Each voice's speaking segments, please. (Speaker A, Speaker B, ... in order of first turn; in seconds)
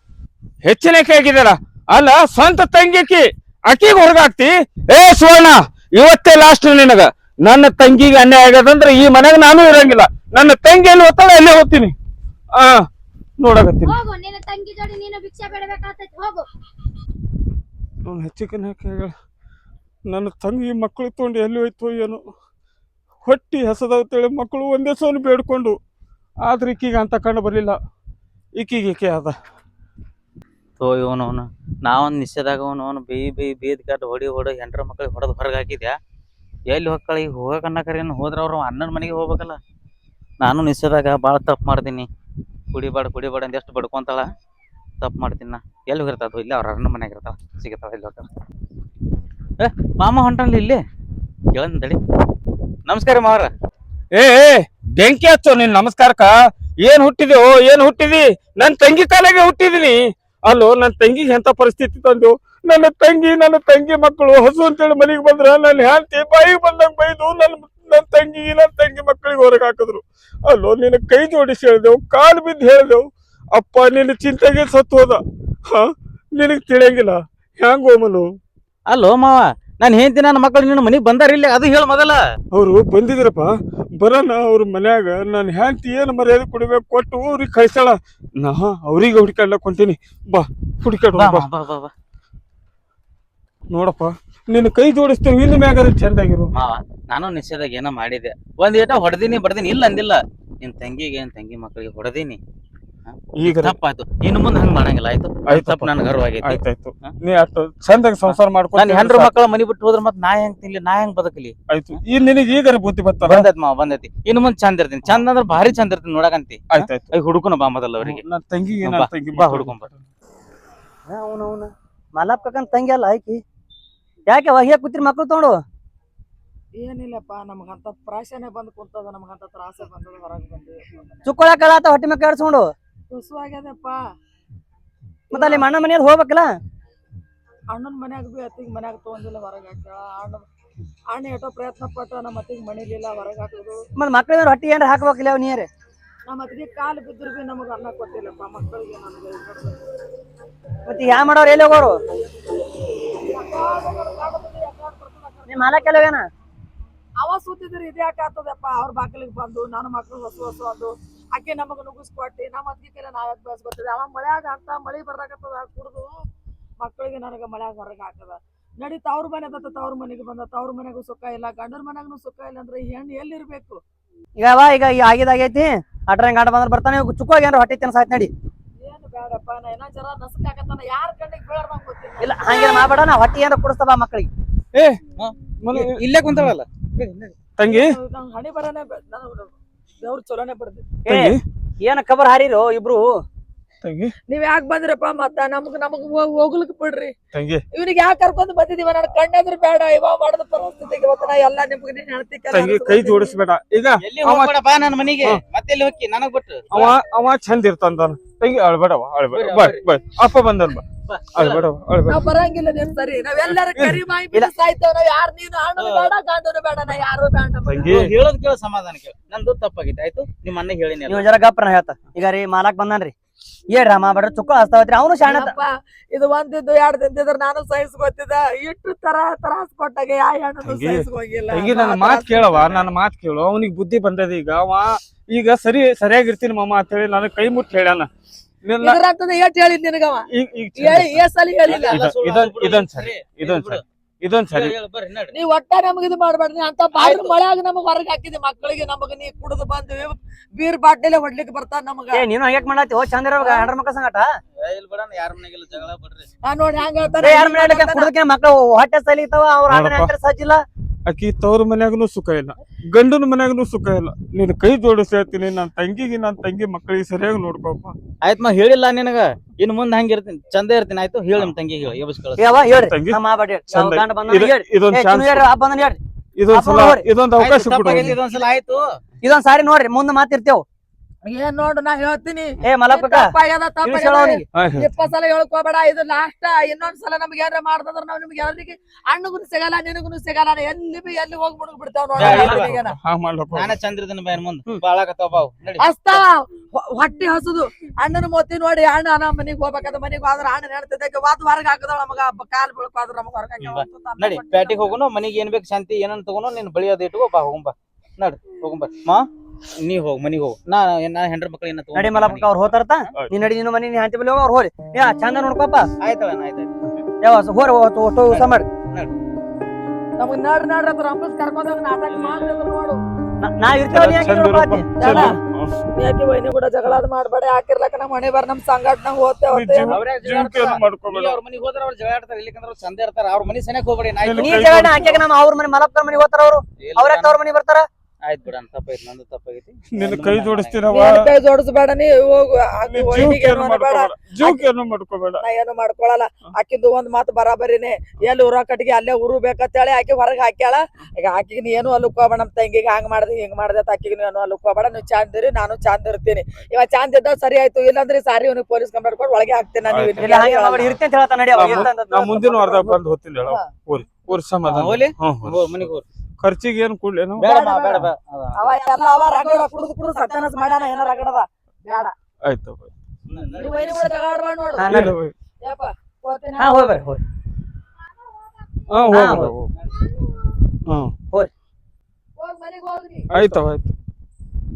Speaker A: 0.6-11.9, 12.6-12.8, 13.4-14.0, 18.1-19.1, 20.1-22.2, 23.2-25.8, 26.4-27.8, 28.6-29.3, 54.1-73.0, 73.5-78.3, 82.5-91.5, 93.7-96.5, 103.4-103.8, 105.5-109.3, 111.7-113.5, 116.7-117.1, 118.0-120.0, 184.7-185.0, 185.6-186.5, 187.6-187.9, 191.1-191.4, 193.8-194.1, 197.3-197.6, 202.5-204.5, 206.7-212.2, 213.7-214.0, 217.7-218.1, 230.6-238.1, 238.6-239.0, 240.3-241.2, 241.9-244.7, 259.7-260.1, 261.1-267.9, 272.8-273.2, 273.7-275.5, 276.4-278.2, 284.5-284.9, 292.2-293.8, 323.9-325.8, 329.5-331.4, 334.2-335.2, 339.9-341.3, 342.9-345.4, 359.9-360.9, 361.5-365.9, 366.4-368.1, 372.4-372.9, 374.8-375.3, 378.9-379.7, 380.9-381.1, 383.3-383.9
Speaker B: 13.8-16.4
Speaker C: 30.8-36.0, 36.7-39.6, 40.4-42.1, 42.7-44.2, 45.0-48.2, 49.6-50.8, 51.5-52.0, 52.9-53.5, 78.9-82.2, 91.1-91.9, 96.5-102.4, 103.0-107.1, 108.2-111.5, 113.2-118.2, 118.8-119.9, 185.2-186.9, 204.0-206.9, 209.3-209.8, 211.1-211.7, 215.8-216.1, 217.8-221.3, 241.6-243.8, 244.5-245.3, 246.9-247.3, 254.6-256.2, 268.2-272.6, 277.4-279.0, 292.1-292.7, 293.5-296.2, 303.6-312.8, 316.0-316.7, 318.3-319.1, 329.9-334.6, 336.8-337.4, 338.2-340.8, 364.7-366.0, 367.4-368.7, 373.3-374.0
Speaker D: 121.1-123.4, 124.3-125.6, 131.2-132.7, 135.3-136.5, 143.9-145.7, 150.8-152.0, 155.5-156.3, 174.4-178.3, 182.2-184.3, 191.0-193.1, 221.1-223.1, 223.7-225.5, 252.1-254.3, 257.2-260.6, 272.4-277.0, 279.2-280.6, 282.6-283.3, 283.8-284.4, 311.9-315.9, 317.2-318.7, 323.4-324.9, 334.3-337.9, 360.2-362.8, 374.8-375.1, 376.6-377.2, 379.1-379.5
Speaker E: 126.8-131.3, 133.1-134.0, 135.3-135.7, 137.7-140.4, 141.1-143.8, 146.3-149.8, 153.3-156.1, 157.2-166.2, 166.8-173.8, 178.8-182.9, 187.7-190.8, 194.3-197.1, 197.7-203.3, 212.1-217.9, 225.2-232.7, 238.8-242.0, 245.3-252.3, 253.4-253.7, 256.4-258.1, 281.2-292.9, 295.8-304.9, 320.2-323.0, 325.0-325.4, 326.0-330.0, 340.9-344.6, 345.4-360.9, 368.6-372.1, 373.6-374.9, 375.6-376.7, 382.4-383.3